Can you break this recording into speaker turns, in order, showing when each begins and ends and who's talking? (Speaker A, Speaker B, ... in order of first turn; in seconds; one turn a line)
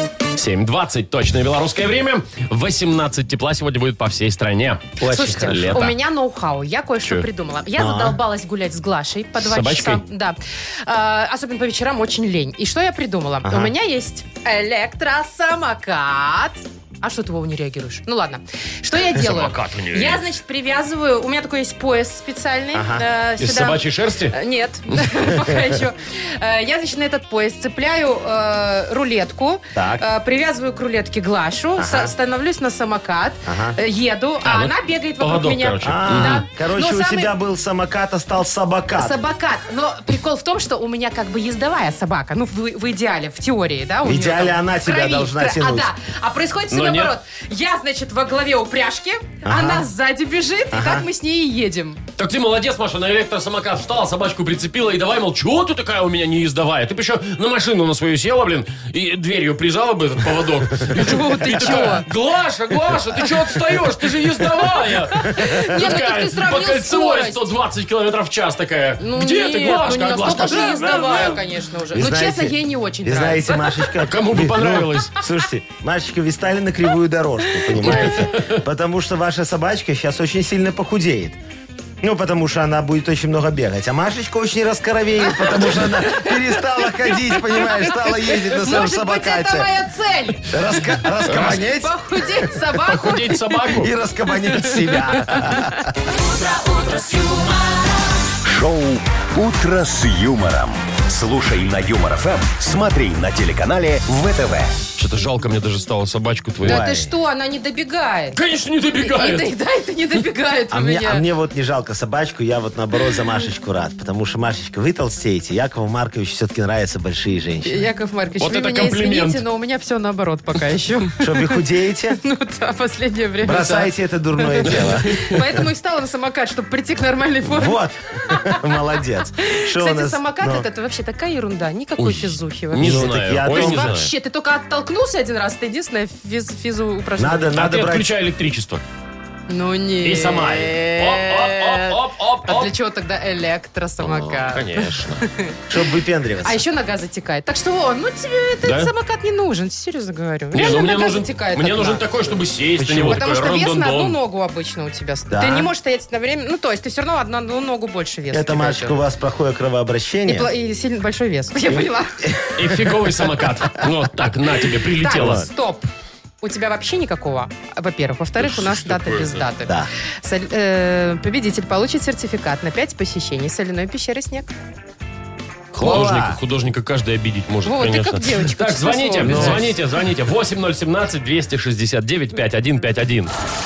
Speaker A: 0.3-5.9
Speaker B: 5.0-5.7
Speaker C: 5.0-37.3
Speaker B: 7.8-8.2
Speaker A: 9.4-10.0
Speaker B: 13.4-13.7
Speaker A: 19.0-20.2
Speaker B: 22.7-23.0
Speaker A: 23.4-24.4
Speaker B: 29.8-30.1
Speaker B: 31.8-32.1
Speaker B: 33.5-33.8
Speaker A: 34.4-36.4
Speaker B: 35.8-39.2
Speaker C: 39.0-52.0
Speaker B: 44.0-45.9
Speaker A: 46.7-47.1
Speaker B: 49.4-49.9
Speaker B: 50.7-51.1
Speaker A: 52.2-71.5
Speaker C: 60.9-62.1
Speaker B: 61.5-61.9
Speaker C: 65.1-67.4
Speaker C: 69.0-73.8
Speaker B: 71.9-81.4
Speaker A: 74.0-75.1
Speaker A: 77.8-78.6
Speaker B: 82.0-89.7
Speaker C: 85.2-90.6
Speaker B: 90.5-92.5
Speaker C: 91.2-93.4
Speaker A: 91.2-91.6
Speaker A: 92.8-93.9
Speaker B: 93.7-96.1
Speaker C: 94.5-95.8
Speaker D: 98.4-104.8
Speaker A: 105.0-106.8
Speaker B: 106.6-107.1
Speaker C: 106.6-108.4
Speaker A: 108.3-109.5
Speaker C: 109.0-111.2
Speaker B: 110.7-117.8
Speaker C: 117.6-121.6
Speaker A: 118.4-119.4
Speaker B: 121.2-122.2
Speaker C: 122.2-128.7
Speaker B: 123.4-125.6
Speaker A: 124.8-125.2
Speaker B: 127.4-130.7
Speaker C: 129.4-137.5
Speaker A: 132.0-134.1
Speaker B: 132.8-134.0
Speaker B: 137.2-138.1
Speaker A: 137.6-138.8
Speaker C: 139.5-145.6
Speaker A: 140.0-142.7
Speaker A: 144.0-145.2
Speaker B: 145.7-146.6
Speaker C: 146.4-152.0
Speaker A: 148.6-148.9
Speaker A: 150.5-154.2
Speaker B: 152.8-153.2
Speaker C: 153.0-159.0
Speaker B: 155.3-155.7
Speaker B: 158.3-160.5
Speaker C: 160.2-162.2
Speaker B: 161.7-163.1
Speaker A: 162.6-165.4
Speaker C: 165.0-165.9
Speaker B: 165.1-165.5
Speaker C: 166.4-174.5
Speaker A: 168.4-169.4
Speaker A: 175.7-183.3
Speaker B: 175.8-176.4
Speaker C: 177.6-179.7
Speaker B: 179.2-179.7